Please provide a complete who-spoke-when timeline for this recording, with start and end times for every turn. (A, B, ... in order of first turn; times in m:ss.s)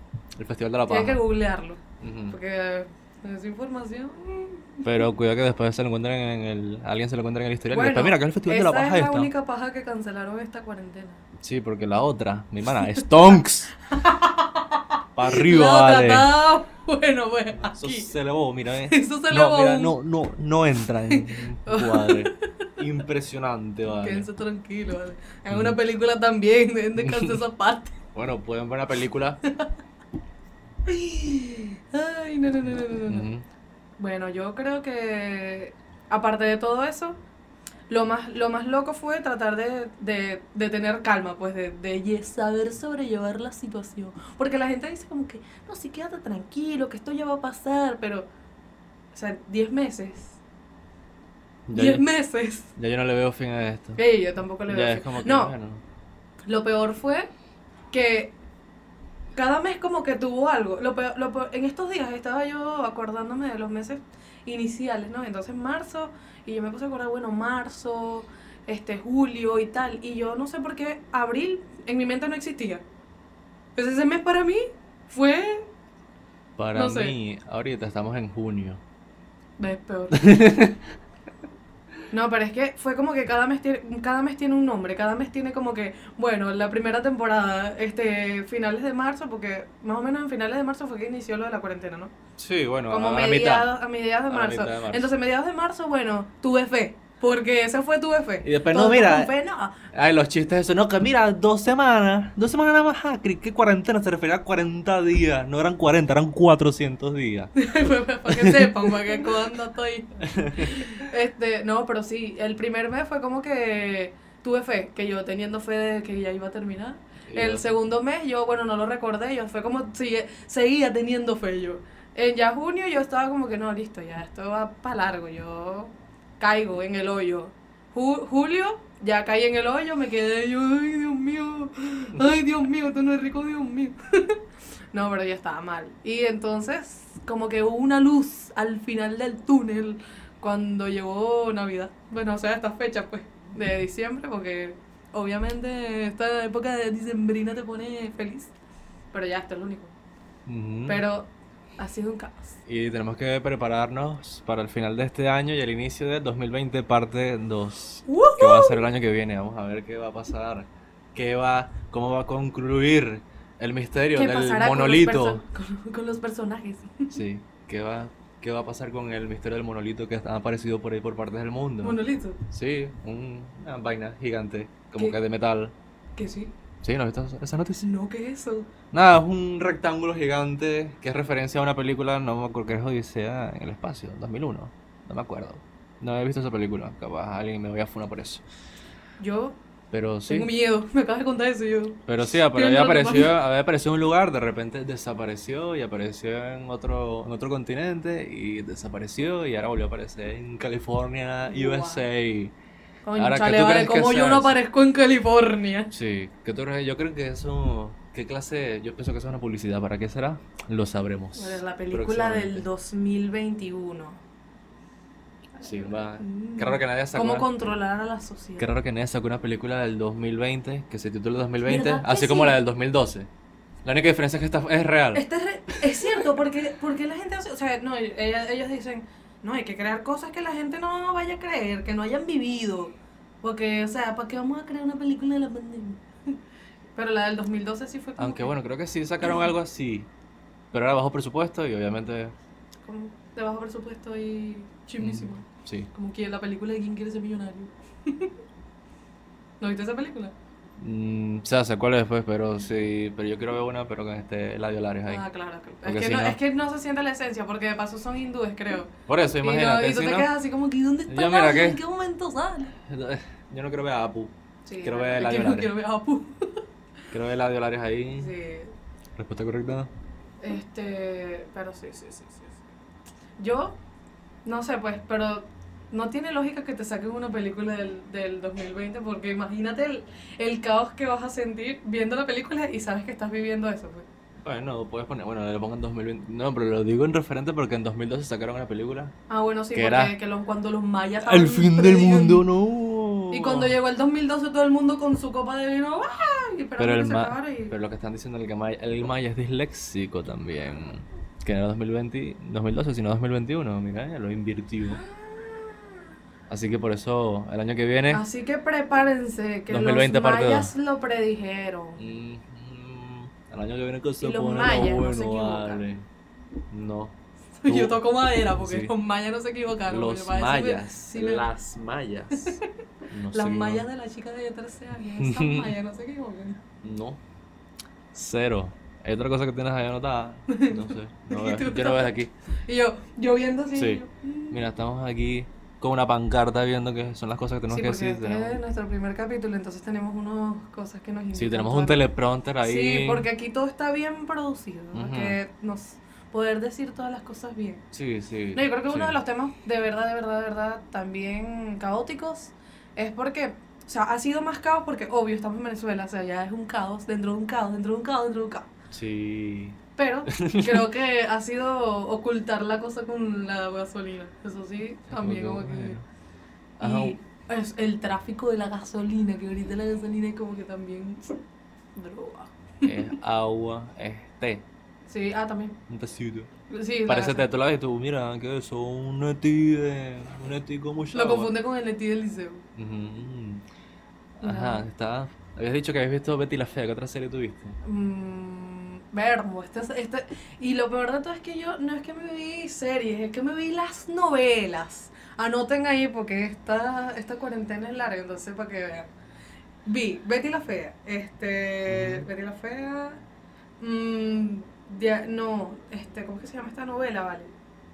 0:00.4-0:01.2 A
0:00.8-0:04.9 B
0:02.0-0:02.4 A
0:04.8-0:09.3 A
0:07.7-0:11.2 B
0:11.4-0:13.7 A
0:13.9-0:18.1 B
0:15.2-0:16.3 A
0:17.5-0:24.3 A
0:18.9-0:19.9 B
0:21.1-0:22.7 B
0:24.0-0:28.0 B
0:25.5-0:25.8 A
0:27.0-0:27.4 A
0:28.1-0:29.4 A
0:30.8-0:33.3 B
0:32.7-0:33.4 A
0:34.0-0:37.2 B
0:37.9-0:48.3 B
0:49.1-0:50.4 B
0:51.7-0:52.0 A
0:51.7-0:52.7 B
0:52.8-0:54.0 A
0:54.0-0:55.5 B
0:54.7-0:55.8 A
0:56.4-0:57.3 B
0:57.9-0:58.3 B
0:59.3-1:12.8 B
1:13.8-1:15.7 B
1:16.6-1:18.8 A
1:16.7-1:17.1 B
1:19.6-1:20.4 B
1:20.1-1:20.8 A
1:22.1-1:32.1 B
1:32.4-1:33.7 A
1:32.9-1:39.8 B
1:34.3-1:35.1 A
1:38.4-1:39.3 A
1:39.9-1:47.5 A
1:47.5-2:14.4 B
1:48.2-1:49.2 A
1:50.2-1:50.9 A
1:57.3-1:57.6 A
2:14.9-2:28.5 B
2:29.1-2:29.9 B
2:30.4-2:31.0 A
2:30.9-2:32.6 B
2:32.6-2:45.4 A
2:38.1-2:38.8 B
2:44.1-2:47.2 B
2:47.1-2:55.7 A
2:51.8-2:52.4 B
2:56.2-2:56.5 B
2:56.8-2:57.9 A
2:57.8-2:58.7 B
2:58.9-3:08.4 A
3:09.2-3:09.6 B
3:09.9-3:10.5 A
3:10.3-3:13.4 B
3:12.1-3:22.5 A
3:21.4-3:22.0 B
3:23.0-3:25.9 B
3:23.1-3:24.6 A
3:25.9-3:32.7 A
3:31.3-3:34.2 B
3:35.5-3:38.7 B
3:35.6-3:37.6 A
3:38.6-3:43.3 A
3:41.6-3:42.6 B
3:43.8-3:46.3 A
3:45.1-3:56.4 B
3:57.0-3:58.5 B
3:58.2-4:00.1 A
4:00.7-4:02.3 A
4:02.8-4:08.3 B
4:05.0-4:05.9 A
4:09.6-4:10.3 B
4:10.8-4:15.2 A
4:15.1-4:22.8 B
4:15.8-4:16.4 A
4:19.1-4:20.3 A
4:21.1-4:21.8 A
4:22.8-4:25.7 A
4:24.6-4:26.6 B
4:27.1-4:28.3 A
4:28.2-4:28.7 B
4:29.2-4:29.9 A
4:30.4-4:32.6 B
4:33.4-4:33.8 B
4:34.4-4:44.0 B
4:44.4-4:49.1 A
4:49.3-4:52.5 B
4:49.7-4:50.2 A
4:51.2-4:53.8 A
4:53.3-4:57.7 B
4:56.8-5:05.0 A
5:05.0-5:05.9 B
5:06.5-5:08.2 A
5:08.1-5:12.0 B
5:09.7-5:10.7 A
5:12.0-5:16.0 A
5:14.2-5:15.8 B
5:16.7-5:17.2 A
5:17.6-5:21.5 B
5:17.7-5:18.9 A
5:19.9-5:22.6 A
5:22.3-5:22.6 B
5:23.1-5:23.8 A
5:23.3-5:26.6 B
5:25.2-5:25.7 A
5:26.8-5:27.2 A
5:28.1-5:32.3 A
5:30.5-5:32.1 B
5:32.6-5:34.6 B
5:33.7-5:38.6 A
5:37.7-5:42.0 B
5:41.3-5:43.3 A
5:42.6-5:47.8 B
5:44.9-5:45.4 A
5:47.9-5:49.2 A
5:48.5-5:58.7 B
5:58.9-6:00.9 A
6:00.0-6:06.0 B
6:05.1-6:06.0 A
6:06.8-6:07.2 A
6:06.8-6:11.4 B
6:12.0-6:13.1 B
6:12.8-6:14.6 A
6:15.1-6:15.8 B
6:15.9-6:16.5 A
6:16.7-6:17.5 B
6:17.1-6:21.5 A
6:21.1-6:22.6 B
6:22.8-6:23.6 A
6:24.4-6:27.8 A
6:24.4-6:24.8 B
6:27.8-6:39.1 B
6:39.8-6:43.2 B
6:41.9-6:42.2 A
6:43.8-6:47.5 B